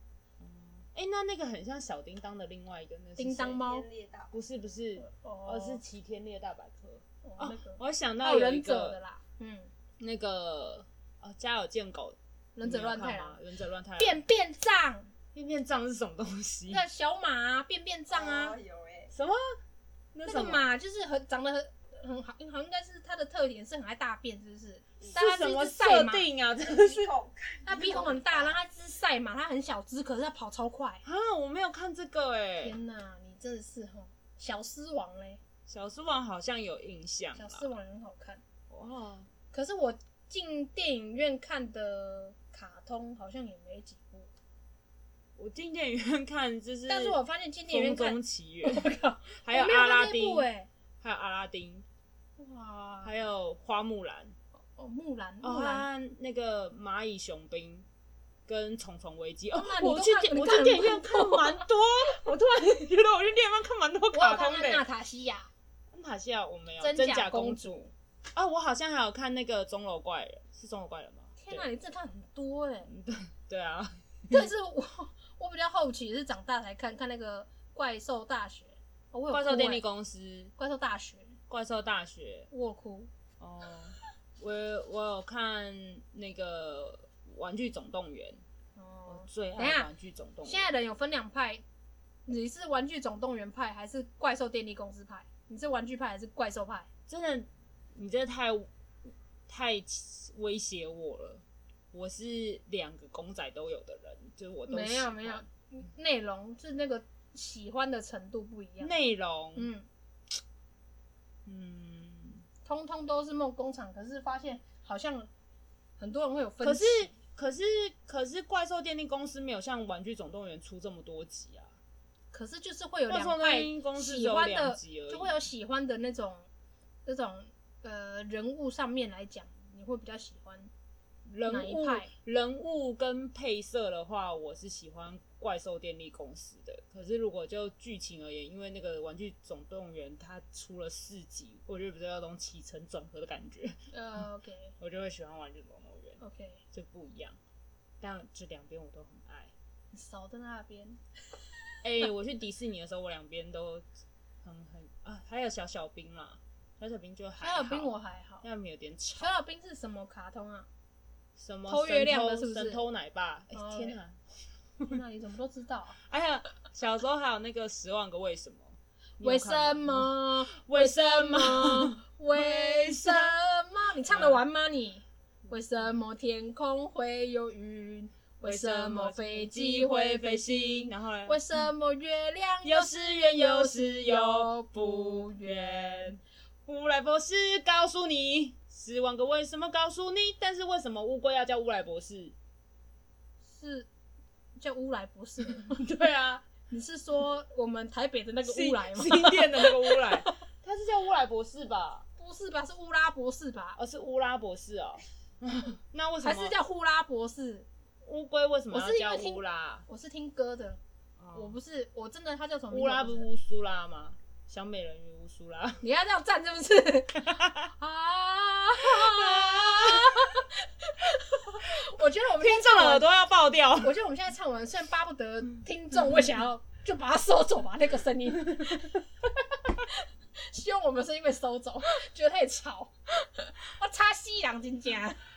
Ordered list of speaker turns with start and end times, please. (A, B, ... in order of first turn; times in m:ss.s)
0:00.4-0:03.6 A
0:03.2-0:03.8 B
0:03.6-0:04.3 C
0:04.3-0:09.0 A
0:05.0-0:05.8 B
0:07.2-0:09.7 B
0:10.0-0:14.2 A
0:12.6-0:13.4 B
0:14.0-0:15.1 B
0:15.3-0:16.8 A
0:16.7-0:18.6 B
0:18.1-0:19.1 C
0:19.1-0:19.6 A
0:20.1-0:20.7 A
0:20.2-0:26.3 B
0:25.1-0:27.1 A
0:26.6-0:28.6 C
0:27.6-0:31.0 B
0:31.0-0:32.8 A
0:32.6-0:35.4 B
0:35.7-0:37.7 A
0:37.4-0:38.4 B
0:38.7-0:39.3 A
0:39.5-0:44.3 B
0:45.4-0:50.5 A
0:46.9-0:50.7 B
0:51.0-0:51.8 A
0:52.4-0:53.1 B
0:53.0-0:54.3 A
0:54.8-0:55.8 B
0:55.4-0:57.8 A
0:58.4-1:04.8 A
0:59.5-1:01.6 B
1:04.1-1:05.5 B
1:05.9-1:11.7 A
1:06.8-1:07.8 B
1:11.4-1:12.9 B
1:12.9-1:14.5 A
1:14.3-1:19.8 B
1:19.3-1:20.5 A
1:20.6-1:21.4 B
1:21.5-1:22.5 A
1:22.5-1:23.1 B
1:23.4-1:28.4 A
1:28.8-1:29.9 B
1:29.1-1:30.7 A
1:30.4-1:31.6 B
1:32.3-1:36.9 B
1:37.1-1:45.4 A
1:44.7-1:48.9 B
1:48.8-1:49.7 A
1:49.6-1:49.9 B
1:51.4-1:52.4 A
1:52.6-1:55.3 B
1:56.0-1:57.1 B
1:56.6-2:01.7 A
2:02.3-2:06.5 B
2:03.1-2:05.4 A
2:07.0-2:10.7 B
2:11.3-2:23.8 A
2:11.4-2:12.1 B
2:23.9-2:24.7 B
2:24.8-2:26.2 A
2:26.2-2:26.6 B
2:26.7-2:27.4 A
2:28.0-2:29.5 A
2:29.9-2:31.0 B
2:31.8-2:33.8 A
2:34.4-2:39.3 A
2:37.4-2:38.4 B
2:39.1-2:40.7 B
2:41.4-2:44.2 A
2:41.7-2:42.8 B
2:43.5-2:44.0 B
2:44.8-2:46.0 B
2:46.0-2:53.3 A
2:49.2-3:06.1 B
2:54.1-2:54.4 A
2:58.4-3:01.4 A
3:02.6-3:12.3 A
3:13.4-3:13.9 B
3:14.6-3:15.8 B
3:15.5-3:16.5 A
3:16.7-3:20.4 B
3:18.4-3:22.0 A
3:22.2-3:23.8 B
3:23.8-3:26.6 A
3:26.2-3:27.7 B
3:28.0-3:29.8 A
3:28.7-3:30.8 B
3:31.2-3:31.5 A
3:31.3-3:33.3 B
3:32.7-3:35.8 A
3:35.8-3:43.1 B
3:37.3-3:37.7 A
3:38.8-3:40.4 A
3:42.0-3:44.0 A
3:43.8-3:55.2 B